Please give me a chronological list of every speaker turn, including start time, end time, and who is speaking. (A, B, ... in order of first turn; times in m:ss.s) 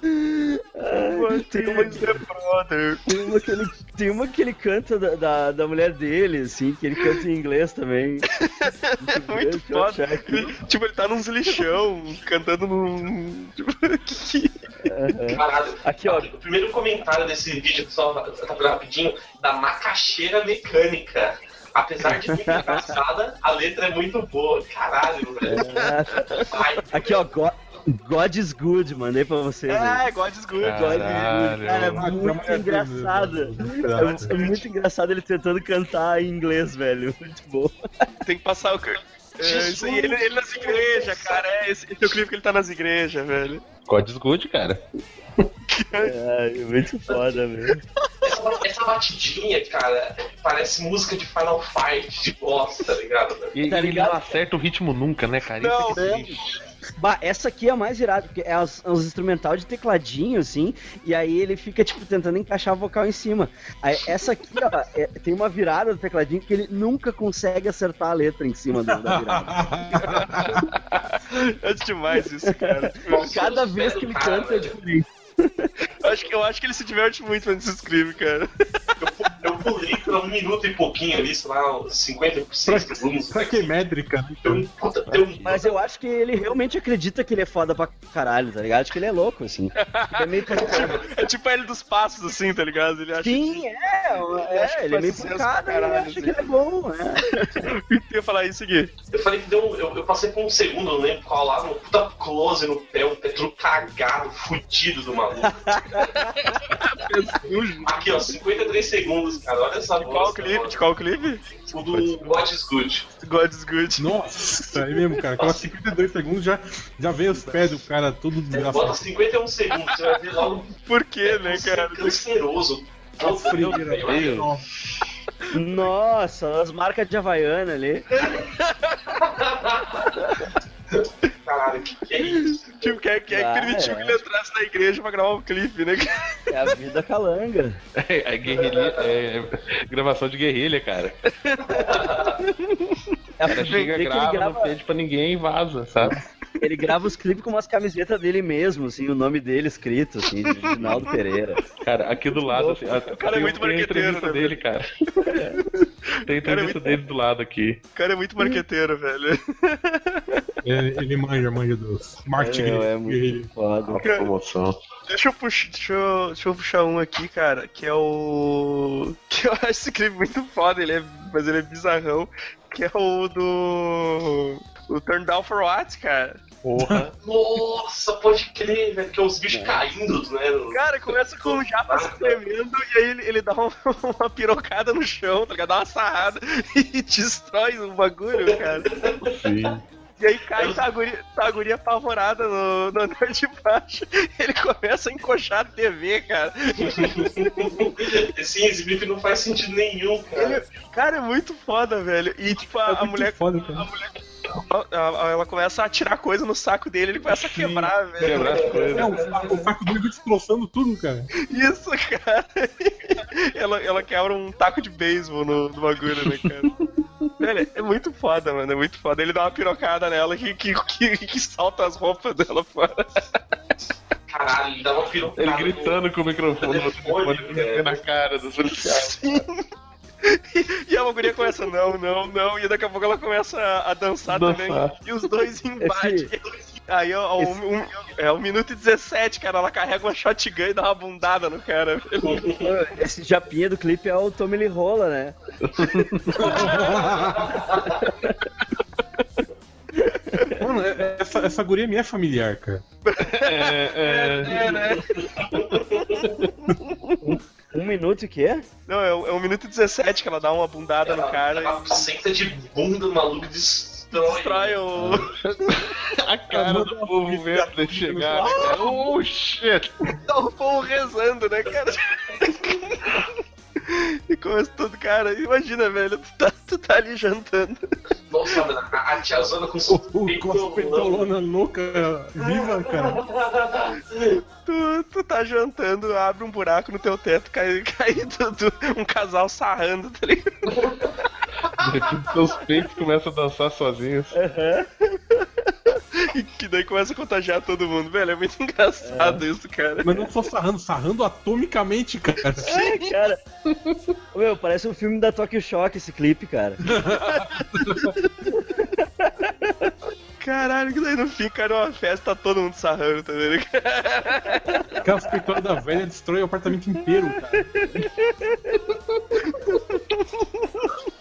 0:00.1-0:02.2 A
0:01.1-0:03.1 B
0:03.1-0:08.3 A
0:08.4-0:14.6 B
0:09.0-0:10.6 A
0:14.8-0:16.3 A
0:15.3-0:25.7 C
0:22.1-0:23.0 A
0:25.4-0:30.0 A
0:25.6-0:26.5 B
0:26.4-0:27.2 C
0:29.7-0:31.3 B
0:30.6-0:32.1 D
0:30.7-0:37.7 A
0:32.0-0:34.3 E
0:34.0-0:34.6 B
0:38.2-0:43.6 B
0:39.4-0:41.4 C
0:43.9-0:44.8 D
0:45.7-0:46.1 B
0:46.0-0:47.8 A
0:48.2-0:53.5 C
0:53.5-0:56.4 D
0:53.7-0:54.3 A
0:55.6-0:56.0 B
0:55.9-0:56.3 A
0:57.0-1:09.6 A
1:08.8-1:10.7 E
1:10.0-1:13.5 B
1:12.5-1:15.7 A
1:13.1-1:14.8 C
1:16.0-1:19.0 B
1:19.0-1:23.8 C
1:22.7-1:24.7 E
1:24.4-1:25.7 C
1:25.1-1:25.6 D
1:25.4-1:31.0 A
1:29.8-1:36.5 B
1:30.5-1:31.0 C
1:33.2-1:37.7 A
1:37.6-1:38.9 B
1:39.1-1:45.7 C
1:45.4-1:46.5 A
1:46.2-1:48.3 B
1:47.8-1:50.8 C
1:50.0-1:51.4 B
1:51.7-1:53.1 C
1:51.9-1:52.5 E
1:53.2-1:54.1 B
1:54.0-1:59.1 E
1:54.7-1:55.2 B
1:55.4-1:55.7 C
1:58.5-2:00.7 C
1:59.9-2:00.2 B
2:00.8-2:02.2 B
2:01.2-2:04.6 C
2:03.2-2:04.6 E
2:03.6-2:03.9 B
2:04.1-2:04.5 D
2:05.5-2:08.1 A
2:08.2-2:09.1 B
2:09.2-2:10.2 C
2:11.0-2:13.0 C
2:12.2-2:16.8 B
2:13.3-2:14.2 A
2:16.5-2:17.8 A
2:18.0-2:21.2 D
2:18.5-2:19.2 C
2:21.3-2:23.0 B
2:21.6-2:22.4 C
2:23.4-2:24.7 A
2:23.4-2:26.2 D
2:23.6-2:23.9 B
2:26.6-2:31.6 A
2:30.5-2:30.9 B
2:31.8-2:34.9 D
2:32.5-2:33.1 A
2:33.1-2:34.6 B
2:35.3-2:35.6 A
2:35.3-2:35.7 B
2:36.2-2:37.0 B
2:36.3-2:37.8 D
2:38.0-2:40.5 B
2:40.6-2:43.5 E
2:42.4-2:44.0 A
2:43.9-2:44.8 D
2:44.0-2:44.3 B
2:45.1-2:56.4 B
2:56.6-2:57.1 D
2:56.8-2:57.1 E
2:57.2-3:02.4 C
2:59.5-2:59.8 A
3:00.7-3:08.9 B
3:08.4-3:09.3 C
3:09.2-3:09.8 D
3:10.2-3:17.9 B
3:10.6-3:10.8 C
3:16.8-3:20.6 C
3:20.4-3:24.2 B
3:22.9-3:23.9 E
3:24.7-3:28.9 B
3:27.3-3:29.3 D
3:28.2-3:29.7 C
3:28.9-3:31.3 E
3:31.4-3:36.7 B
3:36.1-3:37.3 D
3:37.4-3:43.3 B
3:44.3-3:46.0 C
3:45.4-3:49.1 D
3:46.6-3:48.0 C
3:48.8-3:49.6 B
3:50.2-4:02.4 B
3:54.3-3:55.0 D
3:55.8-3:56.3 A
4:02.2-4:02.7 C
4:02.6-4:05.4 A
4:05.6-4:06.5 D
4:06.4-4:07.6 E
4:06.5-4:07.0 B
4:06.7-4:08.0 C
4:10.3-4:10.6 B
4:10.5-4:12.8 E
4:13.0-4:17.4 B
4:13.2-4:14.9 D
4:14.4-4:16.5 C
4:17.7-4:18.6 A
4:18.9-4:22.0 B
4:21.0-4:24.8 C
4:24.1-4:25.8 B
4:25.0-4:29.9 D
4:26.5-4:28.8 E
4:30.2-4:37.9 B
4:38.3-4:41.3 C
4:39.9-4:43.2 E
4:42.4-4:44.4 C
4:44.6-4:51.0 B
4:50.7-4:51.1 C
4:51.8-4:54.4 D
4:54.3-4:54.9 A
4:56.1-5:00.3 B
4:59.0-4:59.4 A
5:00.0-5:02.8 E
5:02.6-5:03.1 B
5:02.6-5:03.4 A
5:04.3-5:06.8 A
5:06.8-5:08.2 E
5:07.2-5:08.5 B
5:08.5-5:09.9 A
5:10.4-5:15.0 B
5:14.6-5:15.0 A
5:15.0-5:17.9 E
5:17.4-5:18.9 A
5:19.5-5:20.9 B